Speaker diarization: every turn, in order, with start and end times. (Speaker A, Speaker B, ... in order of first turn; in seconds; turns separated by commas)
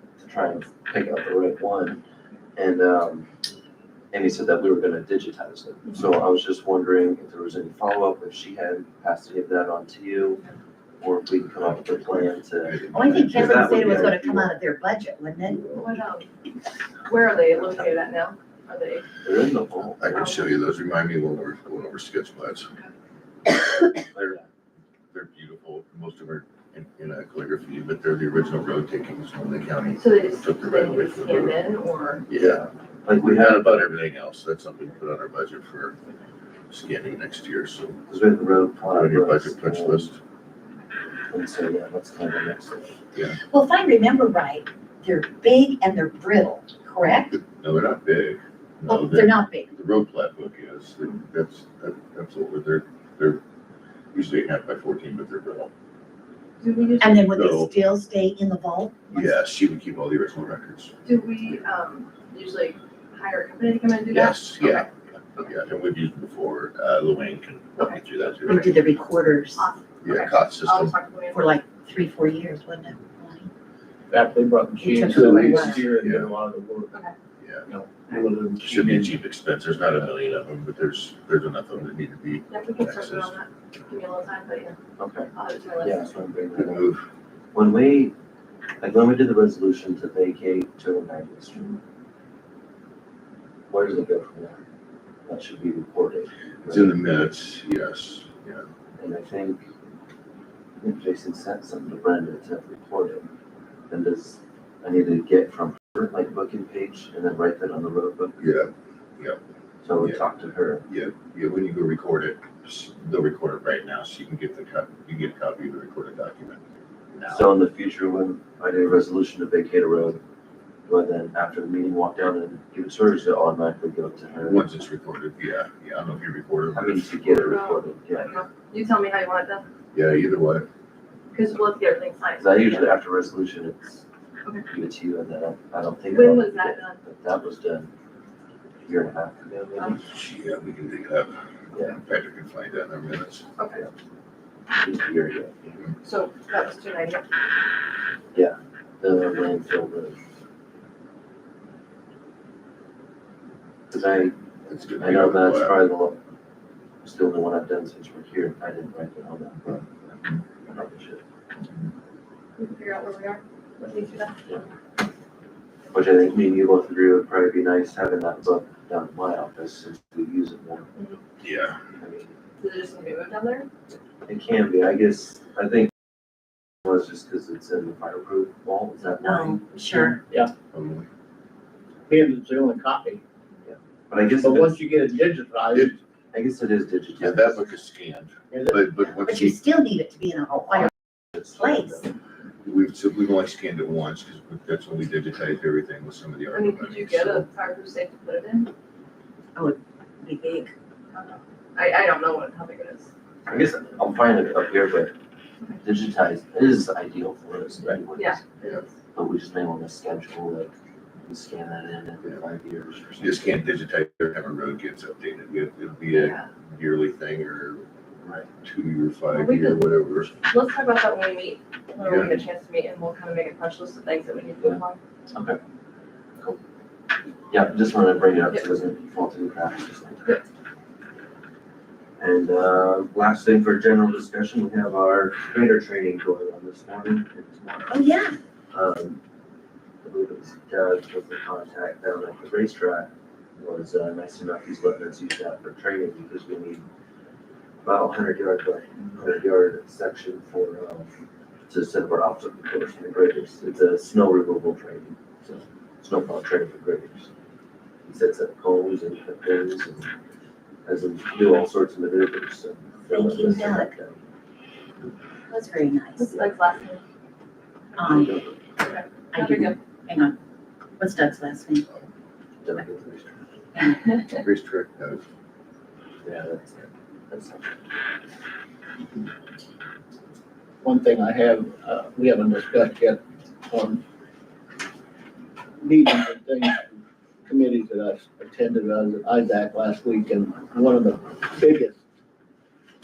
Speaker A: 0.2-2.0, Speaker A: 2.5-3.3, Speaker A: 4.1-10.4, Speaker A: 11.0-14.5, Speaker B: 11.4-14.2, Speaker C: 12.9-15.6, Speaker B: 15.6-15.9, Speaker D: 15.8-16.3, Speaker D: 17.1-19.1, Speaker A: 19.2-20.3, Speaker B: 19.8-22.7, Speaker D: 20.1-20.5, Speaker A: 24.1-24.4, Speaker B: 25.1-31.6, Speaker D: 29.9-32.2, Speaker B: 32.3-36.0, Speaker A: 32.3-33.9, Speaker B: 36.7-38.0, Speaker A: 38.1-40.1, Speaker B: 38.8-40.2, Speaker A: 41.3-43.0, Speaker B: 43.1-43.4, Speaker C: 43.5-47.4, Speaker B: 47.3-53.4, Speaker C: 48.9-49.7, Speaker B: 54.1-55.7, Speaker D: 56.6-57.3, Speaker C: 57.0-59.3, Speaker B: 57.3-57.9, Speaker B: 59.1-60.9, Speaker D: 61.0-64.6, Speaker B: 64.1-68.9, Speaker D: 67.8-68.7, Speaker C: 68.4-69.7, Speaker D: 69.5-71.5, Speaker B: 70.0-71.0, Speaker C: 71.3-73.5, Speaker E: 74.1-76.9, Speaker C: 74.8-75.9, Speaker B: 75.8-76.4, Speaker B: 77.4-77.7, Speaker E: 77.7-79.1, Speaker B: 78.6-83.3, Speaker D: 82.5-84.8, Speaker A: 85.0-86.9, Speaker D: 85.3-86.1, Speaker B: 86.5-87.0, Speaker A: 87.5-88.1, Speaker A: 88.8-91.8, Speaker A: 93.7-94.6, Speaker A: 95.2-97.0, Speaker B: 96.6-98.7, Speaker A: 99.0-99.6, Speaker A: 100.8-103.3, Speaker A: 103.9-108.4, Speaker B: 108.4-109.4, Speaker A: 109.8-110.9, Speaker B: 110.0-110.2, Speaker B: 110.9-116.6, Speaker B: 117.1-117.5, Speaker A: 117.3-120.2, Speaker A: 120.8-124.7, Speaker B: 124.4-127.6, Speaker A: 126.7-128.4, Speaker D: 127.5-129.7, Speaker B: 129.9-130.7, Speaker D: 131.3-132.5, Speaker A: 132.4-134.0, Speaker A: 134.7-137.9, Speaker D: 136.1-137.0, Speaker A: 138.8-140.0, Speaker B: 140.0-141.4, Speaker A: 141.7-142.0, Speaker B: 141.9-143.4, Speaker D: 143.6-143.8, Speaker A: 144.7-145.9, Speaker D: 146.0-147.3, Speaker A: 148.3-150.2, Speaker A: 153.9-154.4, Speaker B: 154.7-155.8, Speaker A: 155.0-156.2, Speaker A: 157.0-159.7, Speaker A: 160.6-161.2, Speaker D: 162.6-164.4, Speaker A: 165.9-170.9, Speaker B: 171.4-171.8, Speaker A: 172.0-172.3, Speaker D: 172.6-173.7, Speaker A: 174.2-175.9, Speaker A: 176.8-180.2, Speaker C: 179.2-180.2, Speaker B: 180.7-181.1, Speaker E: 182.1-183.2, Speaker A: 183.6-184.7, Speaker E: 184.4-185.9, Speaker A: 186.3-187.6, Speaker B: 187.2-189.6, Speaker E: 188.5-188.8, Speaker C: 189.1-190.9, Speaker A: 190.7-192.1, Speaker C: 191.5-192.0, Speaker B: 192.6-197.5, Speaker D: 196.5-198.7, Speaker C: 199.5-200.7, Speaker D: 201.1-203.1, Speaker A: 203.5-205.2, Speaker A: 205.8-208.4, Speaker D: 208.2-208.8, Speaker A: 209.1-213.7, Speaker B: 213.2-217.8, Speaker D: 216.1-216.5, Speaker A: 218.2-218.5, Speaker B: 218.6-220.3, Speaker D: 219.3-219.8, Speaker D: 220.4-225.0, Speaker B: 222.0-222.4, Speaker A: 224.6-225.6, Speaker A: 227.5-230.3, Speaker A: 232.2-238.0, Speaker C: 237.9-238.3, Speaker A: 238.7-239.2, Speaker A: 240.0-246.8, Speaker A: 247.8-251.1, Speaker A: 251.7-257.3, Speaker A: 258.1-260.1, Speaker A: 260.9-264.2, Speaker C: 263.1-263.9, Speaker C: 265.5-266.5, Speaker D: 266.2-267.0, Speaker C: 268.0-268.4, Speaker A: 268.0-268.7, Speaker D: 268.8-269.8, Speaker C: 269.3-270.4, Speaker C: 271.0-271.9, Speaker A: 272.6-273.4, Speaker B: 274.3-275.2, Speaker A: 276.2-277.8, Speaker E: 280.8-284.0, Speaker E: 285.8-292.0